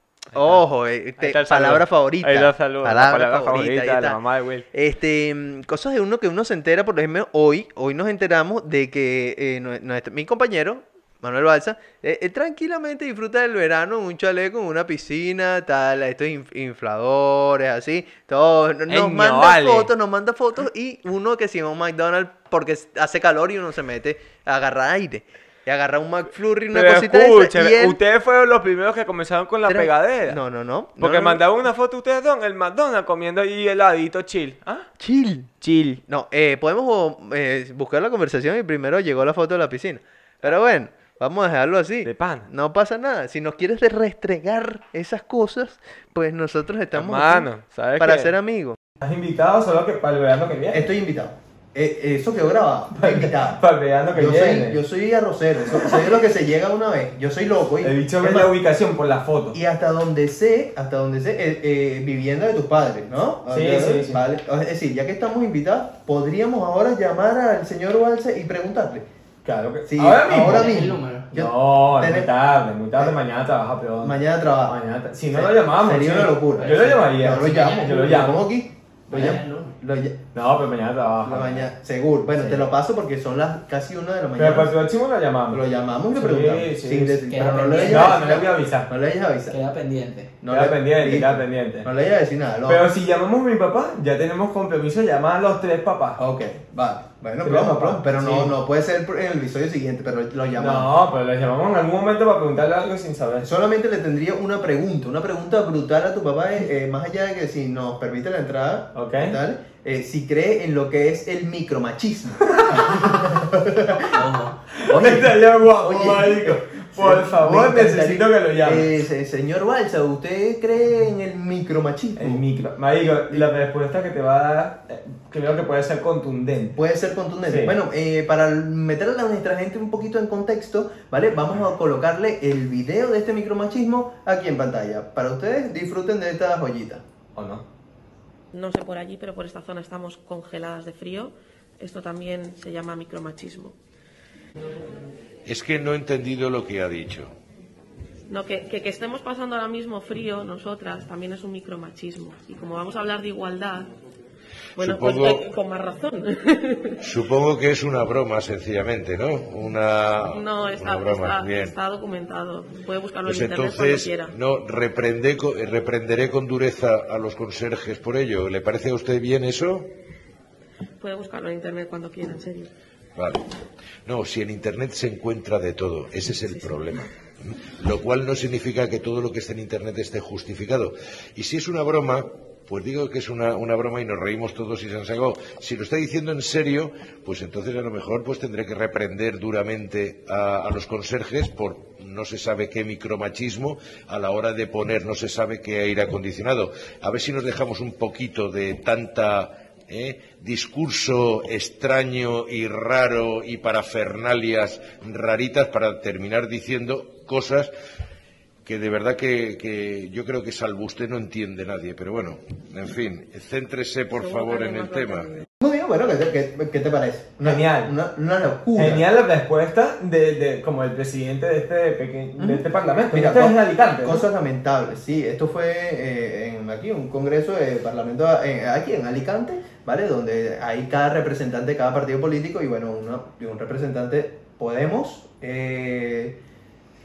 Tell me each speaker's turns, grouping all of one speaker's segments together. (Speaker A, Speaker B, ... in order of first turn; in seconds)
Speaker A: 0.3-4.2, 4.7-28.0, 29.7-31.4, 35.0-35.5, 36.1-48.8, 50.7-58.5, 59.5-69.1, 69.9-72.3, 74.0-74.8, 75.3-80.2, 81.2-84.8, 85.5-89.6, 90.4-92.9, 96.2-100.9, 103.4-114.2, 114.9-122.4, 126.8-137.0, 215.6-219.1, 222.4-236.4
Speaker B: 0.3-0.6, 1.2-4.7, 18.9-19.9, 26.7-30.4, 31.0-34.9, 35.6-36.0, 42.0-42.5, 47.0-48.3, 49.0-50.9, 53.0-54.8, 55.7-56.0, 57.8-59.6, 63.5-64.2, 69.5-70.7, 71.3-78.5, 80.3-81.7, 82.4-82.7, 84.4-85.6, 86.1-87.2, 87.8-88.9, 90.5-91.9, 92.7-96.2, 97.4-98.5, 100.6-103.5, 109.0-109.4, 112.4-113.1, 114.8-119.0, 122.2-126.8, 127.5-127.8, 137.4-137.6, 217.4-217.9, 218.8-224.2
Speaker C: 70.4-71.3, 76.6-77.9, 79.1-79.8, 87.3-88.4, 89.5-90.3, 114.1-114.6
Speaker D: 138.5-143.7, 148.3-153.9, 154.8-157.0, 160.3-164.3, 171.0-172.7, 176.5-176.9, 214.2-215.5
Speaker E: 145.5-147.3, 154.8-155.5, 157.0-161.8, 163.2-169.9, 173.2-173.4, 174.1-177.1, 177.8-207.7, 208.6-215.5